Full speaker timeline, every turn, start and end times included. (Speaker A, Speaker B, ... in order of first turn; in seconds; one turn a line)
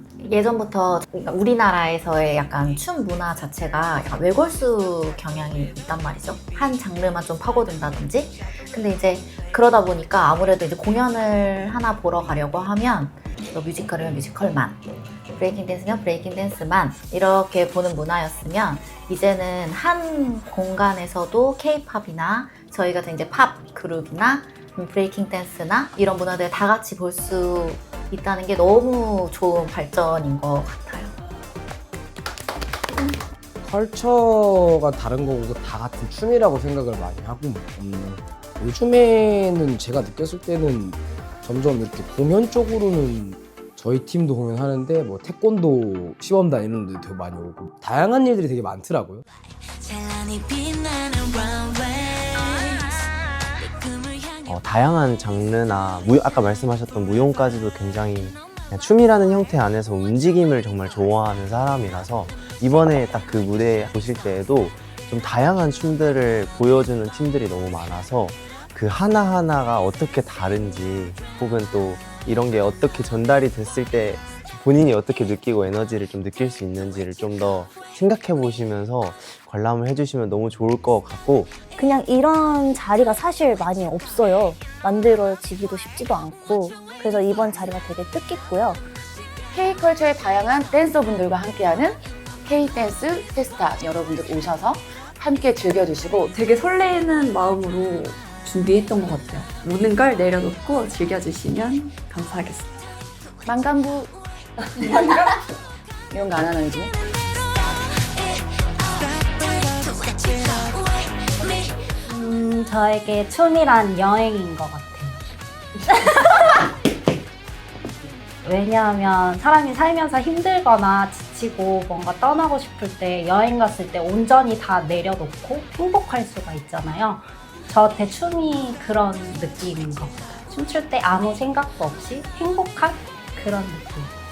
Speaker A: 0.2-31.1
Speaker B: 33.6-49.2
Speaker C: 54.4-81.6
Speaker D: 81.8-88.9
Speaker E: 89.5-96.3
Speaker F: 96.3-102.7
Speaker E: 103.5-104.1
Speaker E: 106.1-106.9
Speaker G: 111.7-116.6
Speaker G: 118.4-134.1